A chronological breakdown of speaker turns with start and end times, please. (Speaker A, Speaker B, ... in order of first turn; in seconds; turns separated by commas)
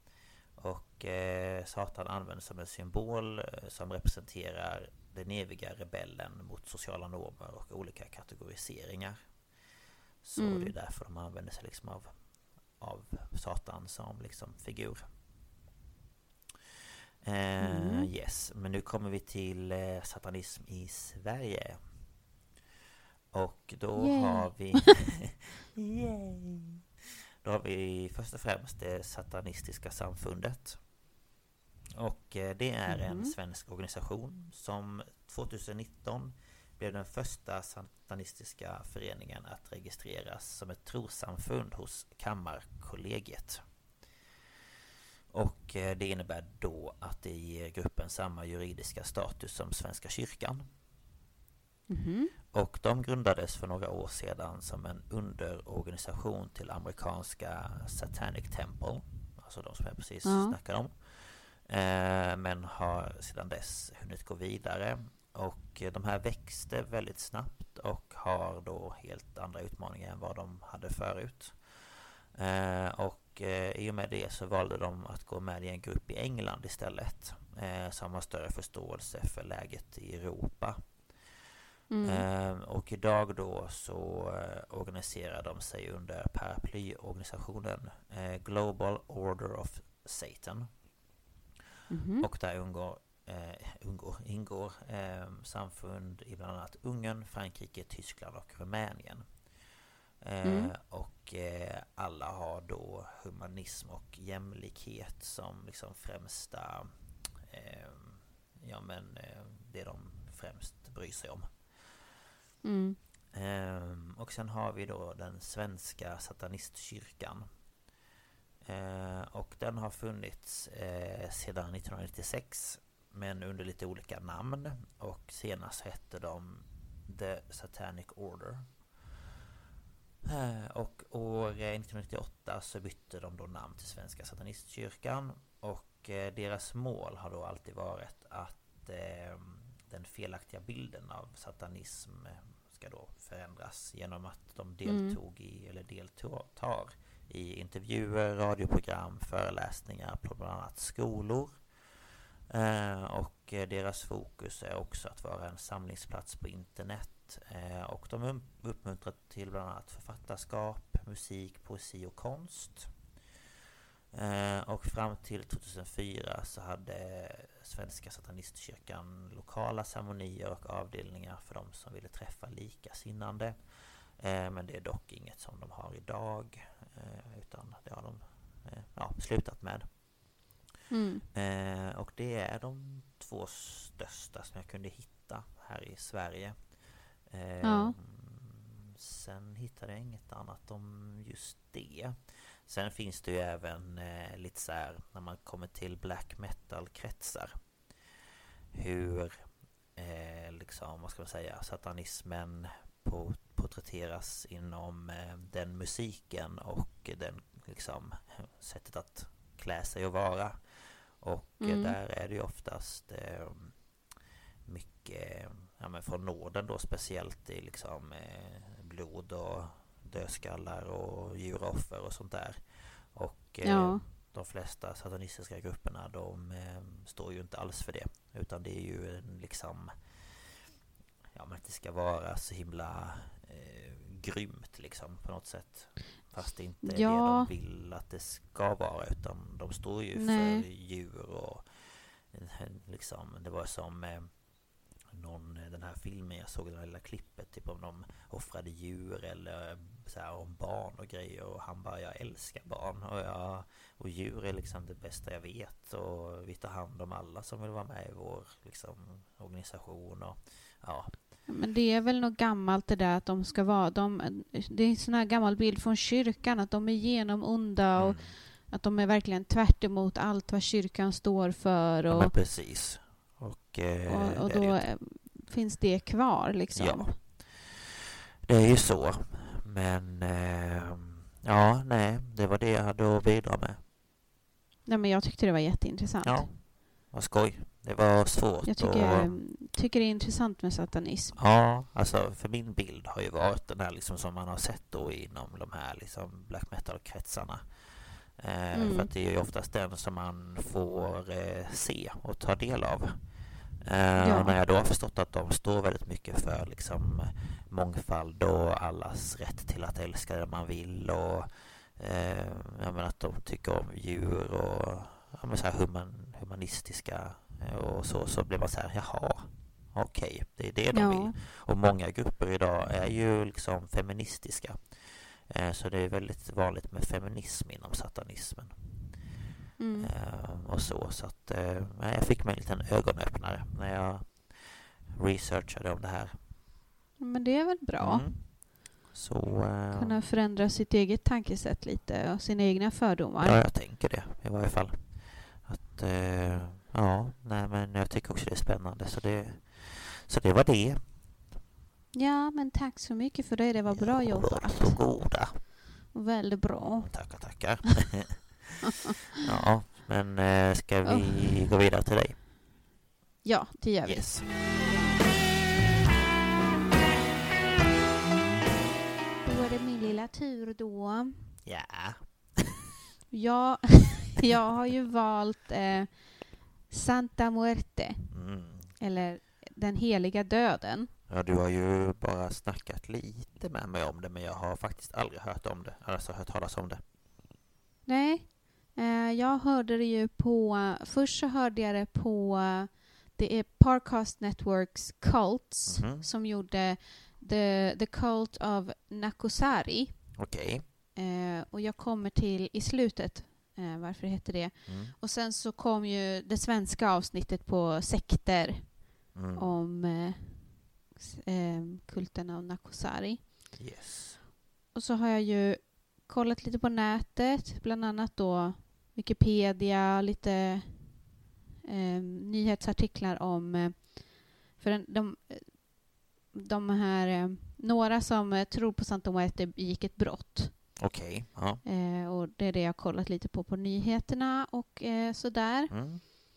Speaker A: 0.6-9.4, Speaker A: 10.2-15.1, Speaker B: 10.4-10.7, Speaker A: 17.2-22.1, Speaker B: 17.6-18.1, Speaker A: 23.3-26.8, Speaker B: 24.0-24.9, Speaker A: 27.4-30.8, Speaker A: 31.9-43.6, Speaker B: 32.9-33.3, Speaker A: 45.3-50.7, Speaker B: 51.9-52.3, Speaker A: 52.5-81.3, Speaker B: 60.2-60.6, Speaker B: 81.9-82.3, Speaker A: 82.0-90.8, Speaker B: 91.9-92.3, Speaker A: 92.2-112.1, Speaker B: 100.4-100.7, Speaker B: 112.6-113.0, Speaker A: 113.3-117.5, Speaker A: 118.6-129.0, Speaker A: 130.2-163.0, Speaker B: 144.8-145.2, Speaker A: 164.1-180.4, Speaker B: 180.9-181.2, Speaker A: 181.3-197.9, Speaker B: 187.6-188.0, Speaker A: 198.7-214.0, Speaker B: 211.6-212.0, Speaker A: 214.7-230.6, Speaker B: 223.6-224.0, Speaker A: 231.3-261.2, Speaker B: 236.8-237.5, Speaker B: 240.2-240.7, Speaker B: 261.5-272.3, Speaker A: 268.0-268.4, Speaker A: 272.1-274.9, Speaker B: 274.1-277.2, Speaker A: 276.8-277.8, Speaker A: 278.4-283.8, Speaker B: 284.9-286.5, Speaker A: 286.2-289.4, Speaker B: 288.7-291.4, Speaker A: 291.4-329.0, Speaker B: 298.7-299.1, Speaker B: 304.2-304.5, Speaker B: 320.9-321.4, Speaker B: 329.8-330.1, Speaker A: 330.0-336.4, Speaker B: 337.2-338.3, Speaker A: 338.0-340.2, Speaker B: 339.9-343.6, Speaker A: 343.4-351.3, Speaker B: 352.1-357.6, Speaker A: 353.9-355.7, Speaker A: 356.7-358.8, Speaker A: 359.4-362.4, Speaker B: 361.0-361.4, Speaker B: 363.4-364.4, Speaker A: 364.1-364.6, Speaker B: 369.4-371.6, Speaker A: 371.6-372.7, Speaker B: 373.3-378.3, Speaker A: 378.3-379.0, Speaker B: 378.8-381.1, Speaker A: 381.3-387.0, Speaker B: 388.1-400.4, Speaker A: 395.9-396.2, Speaker A: 400.4-400.8, Speaker B: 401.1-413.4, Speaker A: 404.9-405.1, Speaker A: 409.3-409.7, Speaker A: 413.7-414.4, Speaker B: 414.9-421.3, Speaker B: 421.9-431.1, Speaker A: 431.0-431.8, Speaker B: 431.8-435.9, Speaker A: 435.9-436.2